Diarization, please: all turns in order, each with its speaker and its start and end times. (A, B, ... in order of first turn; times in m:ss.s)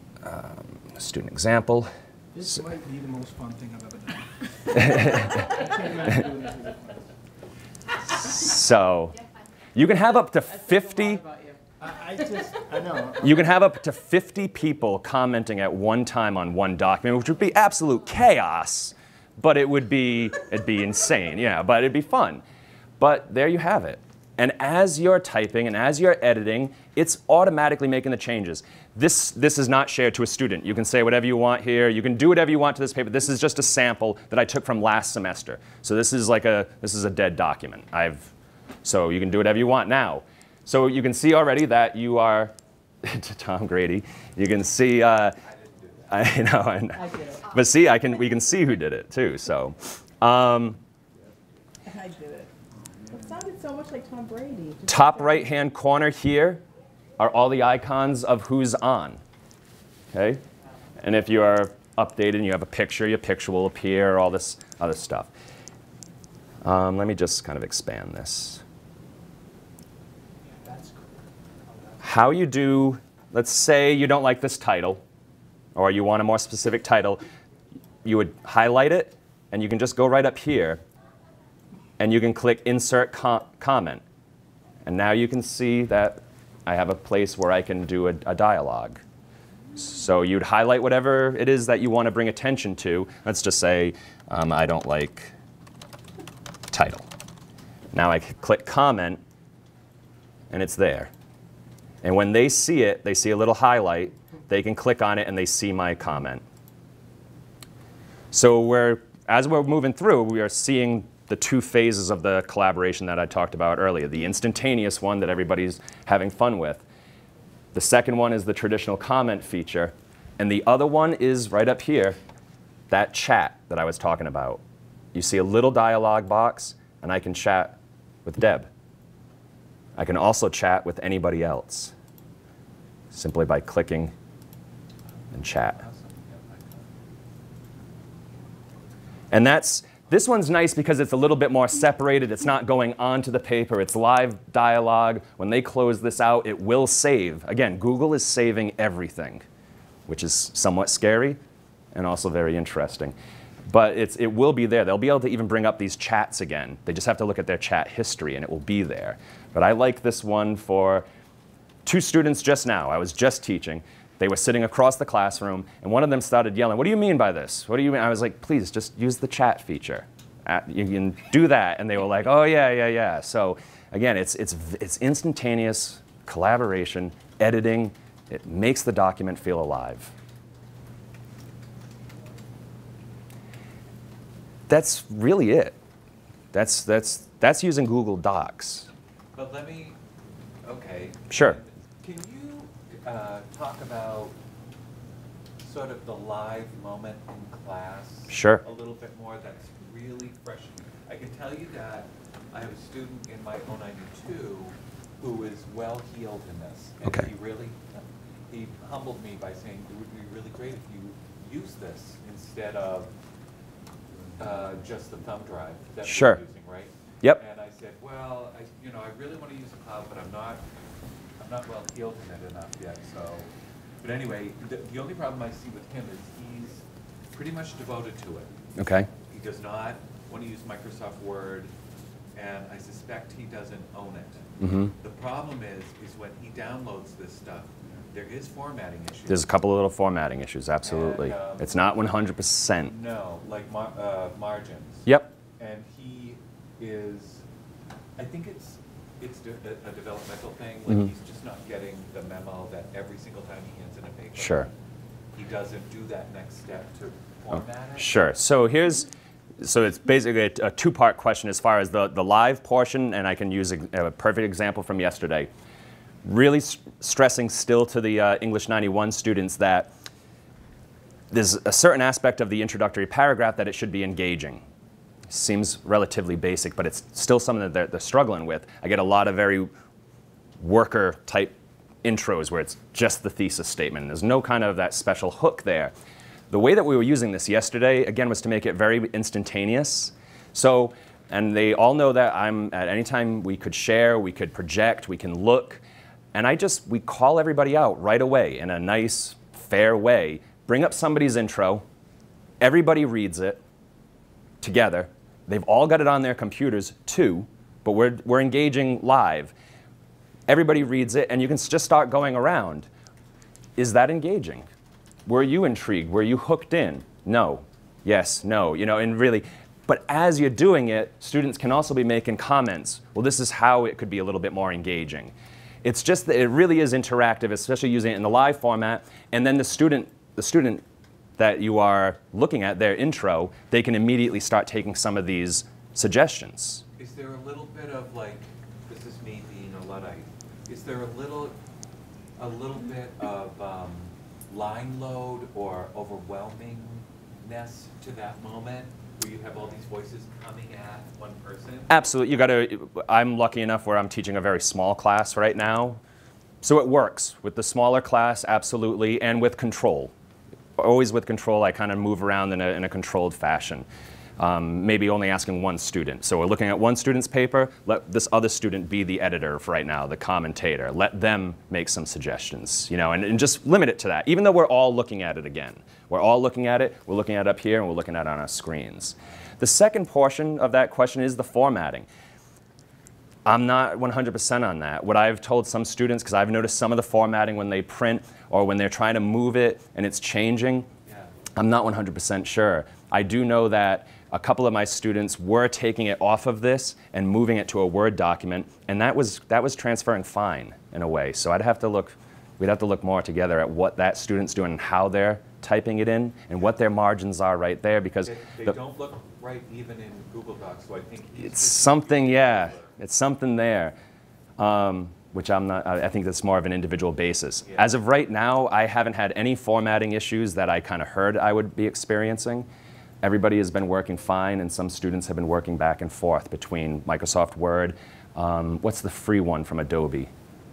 0:00.2-0:01.9 A
0:02.3-0:07.1 B
0:04.7-0:05.4 A
0:08.1-0:09.2 A
0:09.8-0:11.2 A
0:10.5-0:11.6 C
0:11.8-0:13.4 B
0:12.2-0:12.6 C
0:13.2-0:22.4 A
0:23.0-0:38.3 A
0:38.8-0:45.4 A
0:45.5-0:46.0 D
0:46.1-0:50.8 A
0:46.9-0:47.5 C
0:51.9-0:52.5 C
0:52.9-0:53.2 B
0:53.1-0:55.6 C
0:54.9-0:56.6 A
0:57.2-0:59.2 A
1:00.1-1:00.4 A
1:01.0-1:05.3 A
1:06.6-1:08.6 A
1:10.6-1:12.0 B
1:12.0-1:15.0 A
1:15.8-1:17.3 A
1:18.0-1:20.8 A
1:22.0-1:24.0 A
1:24.8-1:29.0 A
1:29.8-1:35.3 A
1:36.7-1:37.1 A
1:37.9-1:39.2 A
1:40.5-1:41.1 A
1:42.0-1:46.4 A
1:48.3-1:56.8 A
1:57.7-2:02.2 A
2:02.9-2:04.6 A
2:05.1-2:08.7 A
2:10.0-2:11.9 A
2:13.1-2:14.1 A
2:15.3-2:15.8 A
2:15.8-2:16.9 D
2:19.3-2:29.5 A
2:30.1-2:31.4 A
2:31.9-2:33.2 A
2:33.7-2:41.1 A
2:41.8-3:00.1 A
3:04.7-3:05.8 A
3:06.5-3:08.9 A
3:09.4-3:10.0 D
3:10.6-3:14.4 D
3:11.3-3:11.6 A
3:15.6-3:27.8 D
3:18.3-3:18.6 A
3:27.0-3:27.3 A
3:28.5-3:33.1 D
3:34.4-3:40.6 D
3:36.0-3:36.4 A
3:41.4-3:43.5 D
3:44.0-3:48.5 D
3:48.8-3:49.1 A
3:49.3-3:51.7 D
3:52.4-3:59.5 D
3:54.6-3:54.9 A
3:59.3-4:03.0 A
4:00.8-4:01.9 D
4:02.8-4:05.1 D
4:05.0-4:05.3 A
4:05.6-4:07.4 D
4:08.2-4:14.7 D
4:14.4-4:14.7 A
4:15.4-4:18.1 D
4:17.5-4:19.1 A
4:19.6-4:25.5 A
4:26.2-4:29.9 A
4:31.3-4:34.6 A
4:35.3-4:39.7 A
4:40.6-4:45.9 A
4:46.5-4:55.8 A
4:56.3-5:01.8 A
5:02.6-5:03.6 A
5:04.6-5:09.5 A
5:10.5-5:12.9 A
5:13.8-5:14.7 A
5:15.3-5:30.8 A
5:31.4-5:36.8 A
5:37.0-5:41.6 D
5:42.4-5:52.1 D
5:51.9-5:56.0 A
5:56.6-6:00.1 A
6:00.8-6:03.9 A
6:04.4-6:22.1 A
6:23.4-6:30.9 A
6:31.6-6:48.8 A
6:48.2-6:52.9 D
6:51.4-6:54.0 A
6:54.6-7:02.7 A
6:57.6-6:57.9 D
7:03.2-7:10.3 A